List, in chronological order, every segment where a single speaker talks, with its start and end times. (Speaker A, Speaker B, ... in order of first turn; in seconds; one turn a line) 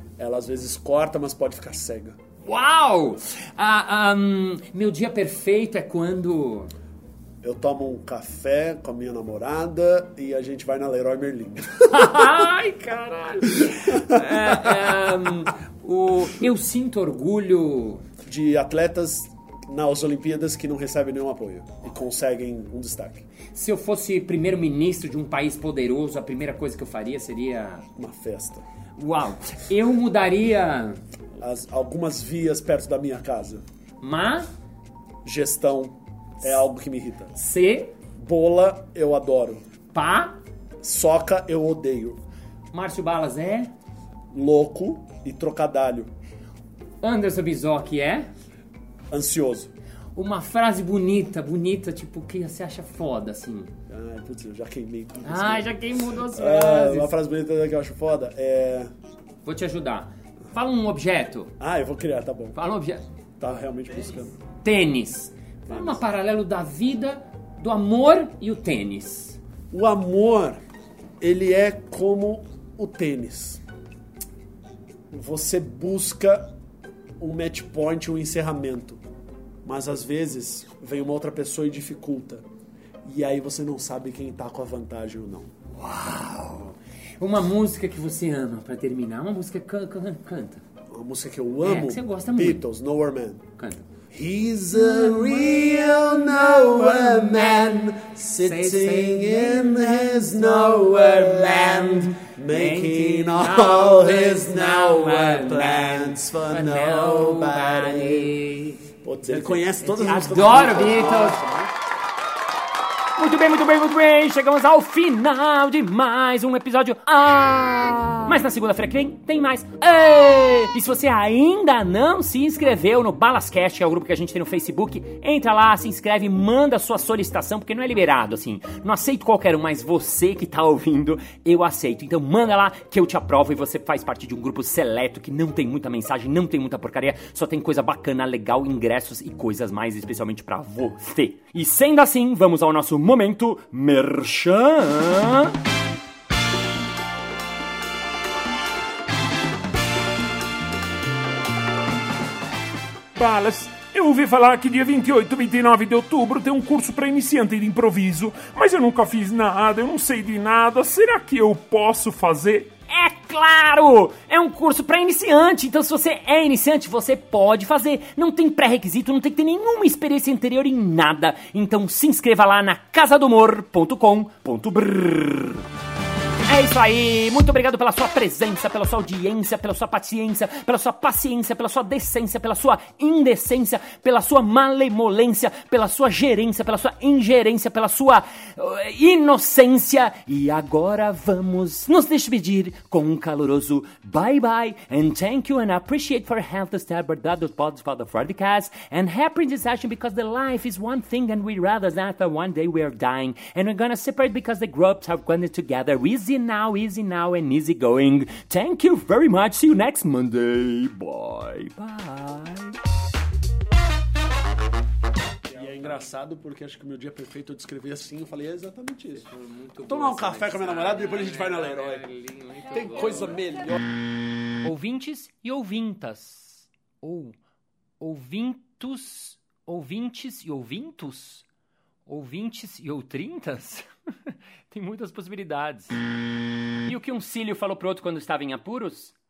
Speaker A: 0.2-2.1
Speaker B: 2.4-6.7
Speaker A: 7.4-12.4
Speaker B: 11.9-18.1
Speaker A: 13.7-14.9
Speaker A: 18.2-23.2
Speaker B: 23.5-27.9
Speaker A: 28.0-28.6
Speaker B: 29.0-31.0
Speaker A: 31.4-33.6
Speaker B: 34.0-34.5
Speaker A: 35.2-37.3
Speaker B: 37.3-37.9
Speaker A: 38.1-39.6
Speaker B: 39.9-40.4
Speaker A: 40.8-42.2
Speaker B: 42.7-43.7
Speaker A: 44.3-46.1
Speaker B: 47.0-48.3
Speaker A: 49.1-49.7
Speaker B: 50.1-53.7
Speaker A: 53.9-58.9
Speaker B: 55.2-57.1
Speaker B: 59.4-61.5
Speaker A: 61.6-62.5
Speaker B: 62.5-63.0
Speaker A: 63.4-64.3
Speaker B: 64.6-69.4
Speaker A: 65.7-66.0
Speaker A: 69.7-70.6
Speaker A: 71.2-73.6
Speaker A: 75.1-76.5
Speaker A: 77.2-79.0
Speaker A: 79.6-82.4
Speaker A: 83.0-85.5
Speaker B: 85.7-90.6
Speaker A: 90.9-93.4
Speaker B: 91.6-92.6
Speaker B: 93.6-93.8
Speaker A: 94.1-108.4
Speaker B: 94.8-95.8
Speaker B: 98.4-99.9
Speaker B: 100.4-108.8
Speaker A: 109.0-111.7
Speaker B: 109.4-111.4
Speaker B: 113.2-145.5
Speaker C: 153.2-162.7
Speaker B: 162.9-175.7
Speaker B: 176.5-212.8
Speaker A: 215.5-219.2
Speaker B: 219.2-223.4
Speaker A: 219.8-222.1
Speaker A: 222.7-223.8
Speaker B: 224.6-227.4
Speaker B: 228.0-231.4
Speaker B: 232.1-236.0
Speaker B: 236.8-239.1